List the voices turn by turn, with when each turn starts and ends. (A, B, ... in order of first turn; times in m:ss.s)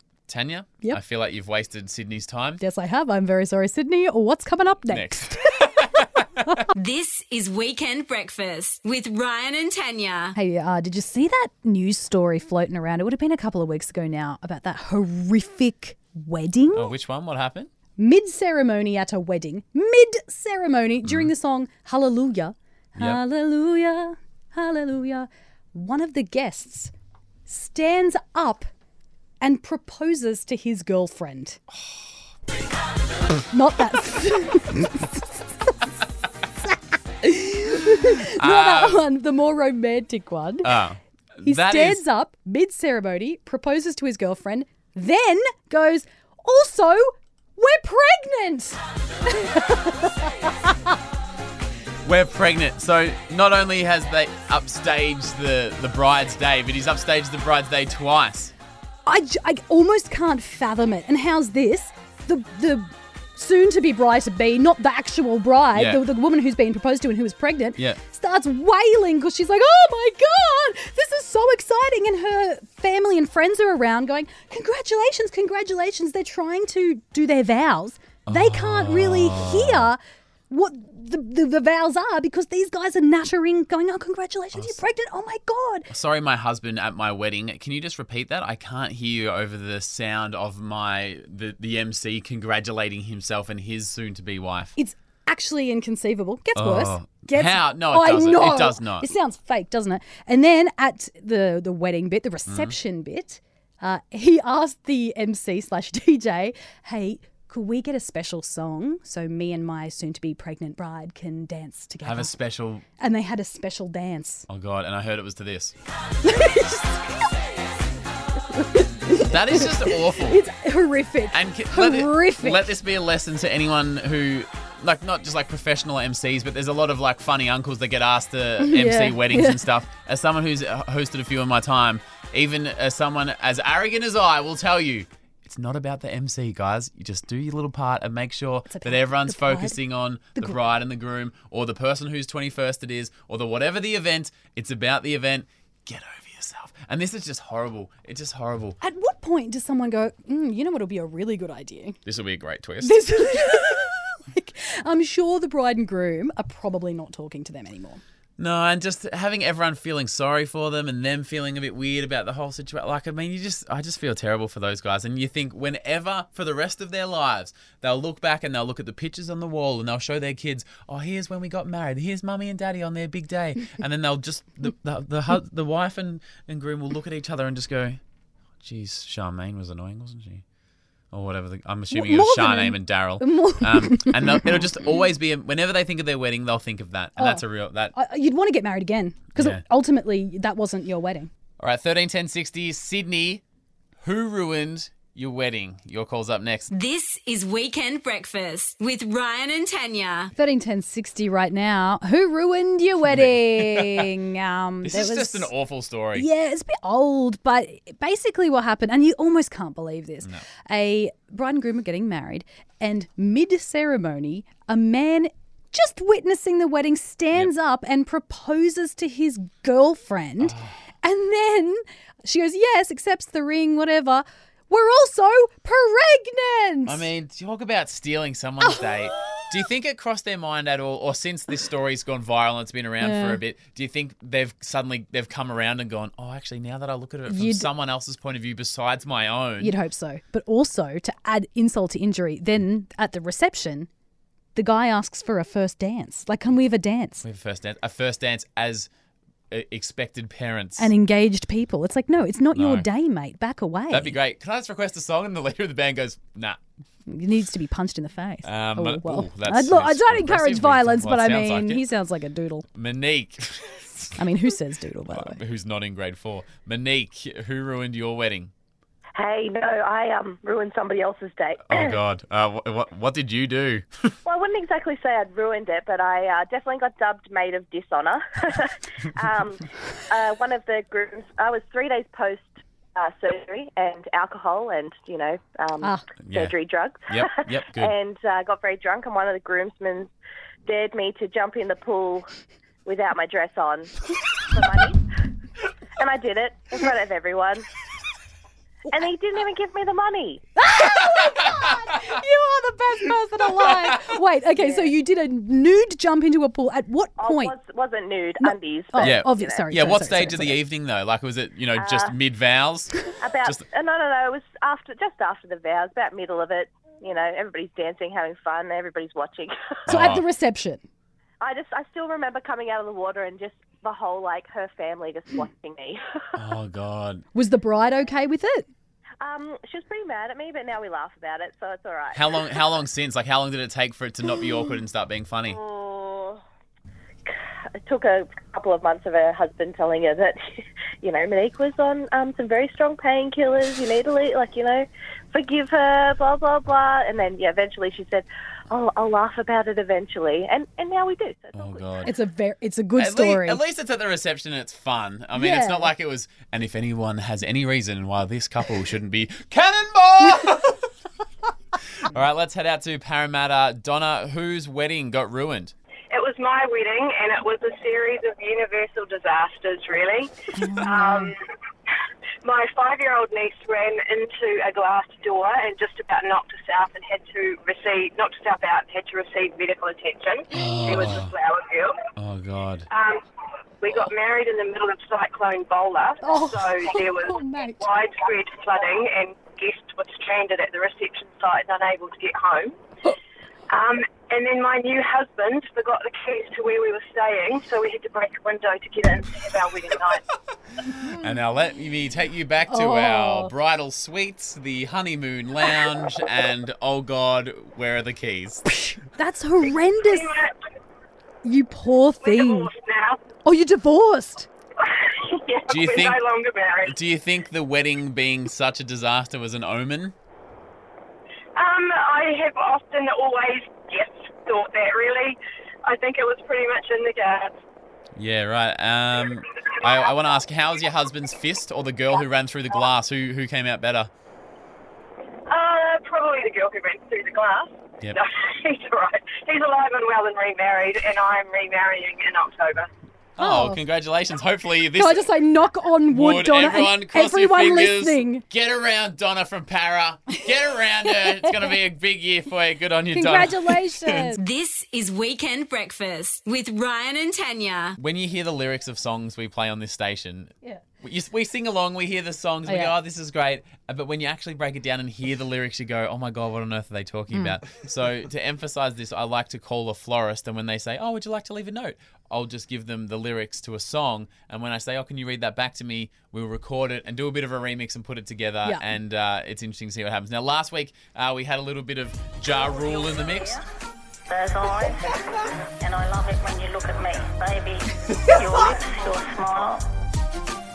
0:00.3-0:02.6 A
0:02.6-0:06.6 B
0:04.9-0:06.6 A
0:06.7-0:10.3 C
0:10.3-0:16.9 B
0:16.7-0:17.7 A
0:18.0-0:26.9 B
0:21.0-0:21.3 A
0:27.5-0:28.7 B
0:29.4-0:31.6 B
0:33.5-0:35.7 B
0:36.7-0:40.7 B
0:38.0-0:39.0 A
0:40.6-0:42.0 A
0:41.4-0:50.9 B
0:52.0-0:58.5 A
0:59.0-1:25.9 B
1:05.7-1:06.0 A
1:18.3-1:19.9 A
1:24.5-1:24.8 A
1:25.9-1:34.7 A
1:34.8-1:52.3 B
1:36.6-1:39.1 A
1:42.5-1:42.7 A
1:52.0-1:52.8 A
1:53.0-1:54.5 B
1:54.5-1:55.7 A
1:56.2-1:57.3 B
1:58.5-2:02.7 B
1:59.2-2:00.4 A
2:01.3-2:28.8 A
2:08.6-2:09.6 B
2:18.7-2:19.8 B
2:28.8-2:32.0 B
2:32.0-2:33.4 A
2:32.8-2:38.0 B
2:38.4-2:58.0 A
2:58.6-3:00.4 A
3:01.1-3:07.9 A
3:01.9-3:04.6 B
3:07.2-3:11.3 B
3:09.4-3:09.6 A
3:11.6-3:13.4 A
3:14.0-3:16.7 A
3:16.7-3:20.3 C
3:20.3-3:25.5 B
3:23.0-3:24.1 A
3:24.8-3:26.3 A
3:26.1-3:47.0 B
3:40.4-3:40.8 A
3:46.8-3:59.7 A
3:48.6-3:49.4 B
3:53.0-3:53.4 B
3:57.3-3:57.7 B
3:59.6-4:03.9 B
4:04.5-4:07.2 B
4:07.2-4:08.9 A
4:09.5-4:10.9 A
4:10.8-4:14.2 B
4:12.5-4:12.9 A
4:13.9-4:16.6 A
4:17.1-4:22.6 B
4:18.4-4:21.8 A
4:22.7-4:24.2 A
4:24.2-4:25.4 B
4:25.1-4:28.5 A
4:29.2-4:31.9 D
4:31.7-4:34.2 A
4:34.2-4:50.1 D
4:46.2-4:46.5 A
4:47.1-4:47.9 A
4:50.6-4:52.3 D
4:52.8-4:54.0 D
4:54.5-4:55.0 D
4:56.0-4:57.7 D
4:58.9-5:00.4 D
5:00.6-5:07.5 B
5:00.8-5:01.7 A
5:04.6-5:04.9 D
5:07.2-5:09.7 D
5:08.4-5:10.6 B
5:09.0-5:13.6 A
5:11.8-5:12.2 D
5:13.2-5:19.9 D
5:19.9-5:20.2 A
5:19.9-5:20.8 B
5:21.4-5:26.0 D
5:26.3-5:27.2 A
5:27.3-5:28.7 B
5:29.2-5:32.4 D
5:32.1-5:35.6 A
5:35.5-5:36.4 D
5:37.3-5:40.4 D
5:41.0-5:52.1 D
5:51.5-5:52.1 A
5:52.0-5:53.6 B
5:53.0-6:00.8 A
5:55.3-5:55.9 B
6:02.0-6:05.7 A
6:06.1-6:11.4 E
6:10.6-6:11.3 B
6:12.4-6:22.0 E
6:20.5-6:21.3 A
6:22.2-6:22.9 A
6:22.9-6:23.2 E
6:23.8-6:32.8 E
6:26.2-6:27.9 B
6:33.7-6:40.2 E
6:41.1-6:48.7 A
6:42.7-6:43.5 B
6:48.7-6:50.3 B
6:49.6-6:50.6 E
6:51.4-6:52.7 B
6:52.2-6:53.3 E
6:53.4-6:54.5 B
6:54.8-6:57.0 E
6:55.7-6:56.2 A
6:56.8-7:00.1 A
7:01.6-7:07.6 E
7:08.2-7:14.1 A
7:15.5-7:22.9 E
7:23.4-7:25.3 A
7:23.4-7:23.8 B
7:24.9-7:28.4 B
7:26.1-7:34.3 A
7:31.2-7:31.8 B
7:33.1-7:34.4 B
7:34.3-7:38.0 C
7:38.0-8:03.6 A
7:42.7-7:42.9 B
7:47.3-7:47.6 B
8:02.7-8:03.6 F
8:04.3-8:09.8 F